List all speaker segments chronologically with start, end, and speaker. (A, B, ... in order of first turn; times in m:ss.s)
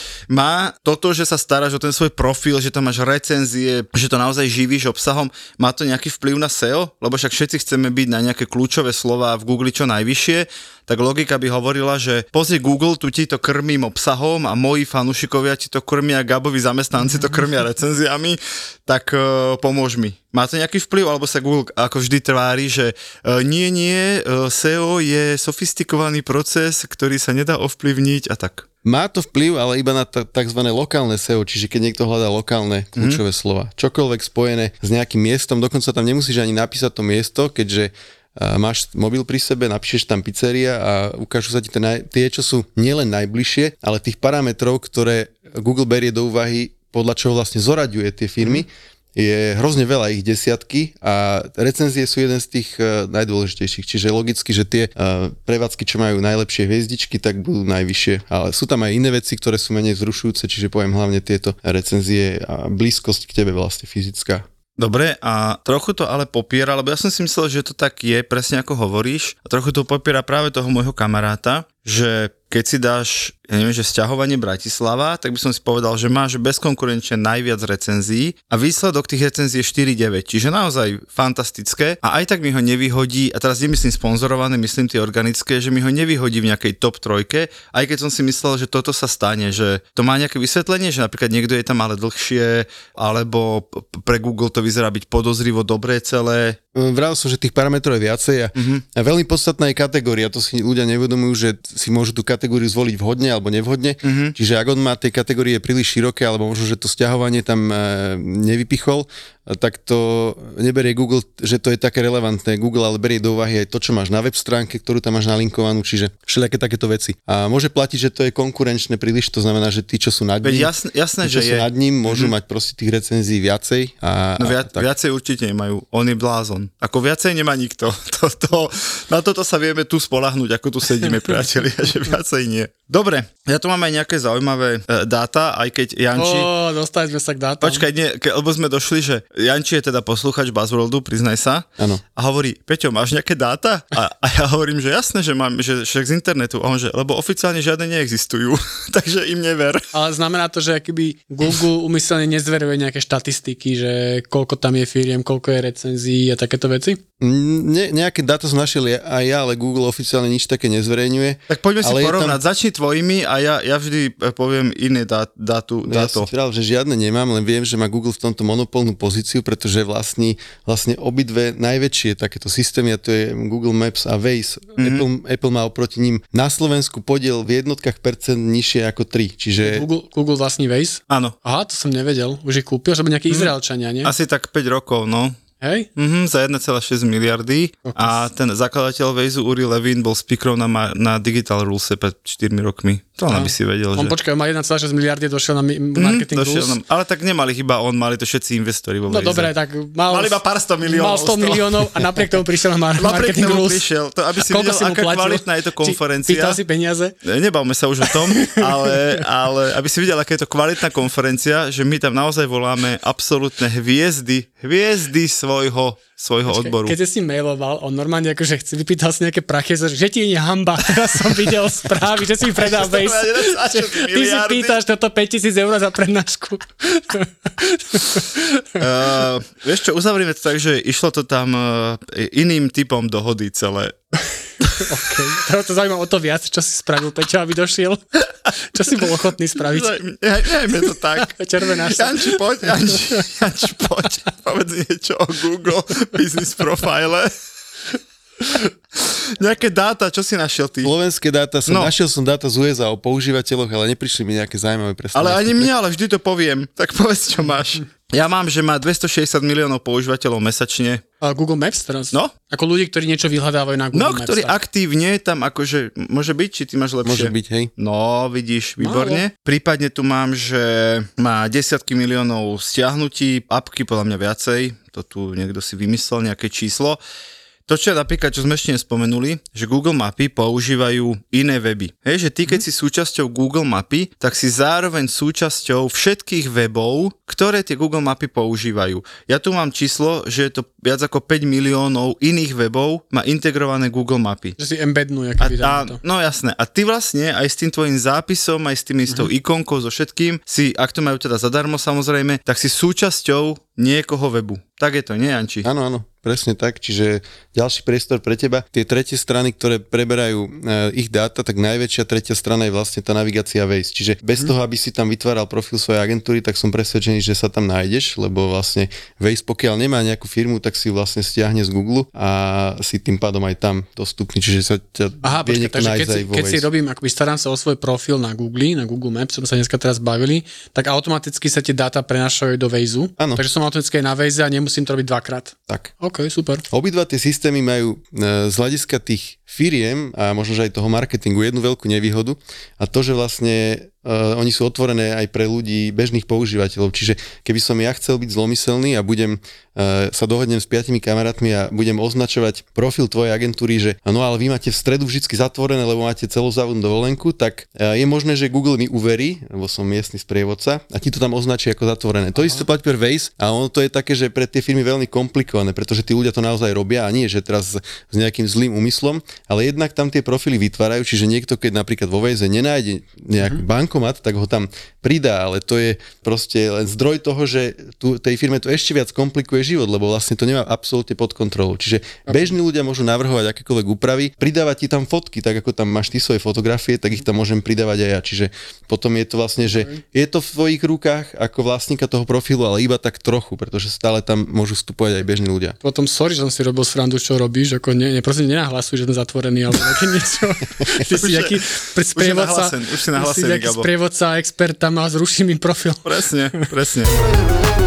0:00.3-0:28.6 A
0:28.8-1:04.4 B
1:04.8-1:36.6 A
1:36.7-2:04.9 B
1:38.6-1:38.8 A
1:44.0-1:44.3 A
2:00.4-2:02.3 A
2:04.4-2:16.5 A
2:16.2-2:17.8 C
2:17.6-2:21.6 A
2:22.2-2:29.8 A
2:29.9-2:37.0 C
2:37.2-2:42.4 B
2:41.5-2:46.3 A
2:45.8-2:59.9 B
2:54.8-2:55.0 A
2:59.6-3:04.1 C
3:01.1-3:01.3 A
3:04.0-3:05.4 A
3:05.6-3:05.9 C
3:06.0-3:14.2 A
3:07.8-3:08.2 C
3:13.3-3:16.8 C
3:16.0-3:19.5 A
3:19.1-3:23.8 C
3:20.1-3:22.3 A
3:23.0-3:26.6 A
3:24.4-3:27.1 C
3:27.2-3:37.0 A
3:36.5-3:48.8 C
3:41.9-3:44.8 A
3:48.8-3:53.9 A
3:54.7-3:58.0 C
3:58.7-4:00.0 C
3:59.6-4:07.3 A
4:01.2-4:02.4 C
4:09.0-4:10.9 A
4:10.8-4:15.7 B
4:11.7-4:11.9 A
4:15.1-4:21.0 A
4:21.2-4:24.6 C
4:23.9-4:37.0 A
4:27.0-4:27.7 B
4:28.8-4:29.2 C
4:37.7-4:54.6 A
4:54.6-4:56.0 C
4:55.4-5:05.6 A
5:05.6-5:26.7 B
5:25.2-5:36.6 C
5:36.7-6:35.8 B
6:22.3-6:22.5 C
6:29.7-6:30.0 C
6:35.8-6:46.1 C
6:41.1-6:41.6 A
6:42.1-6:43.9 A
6:46.0-6:47.1 A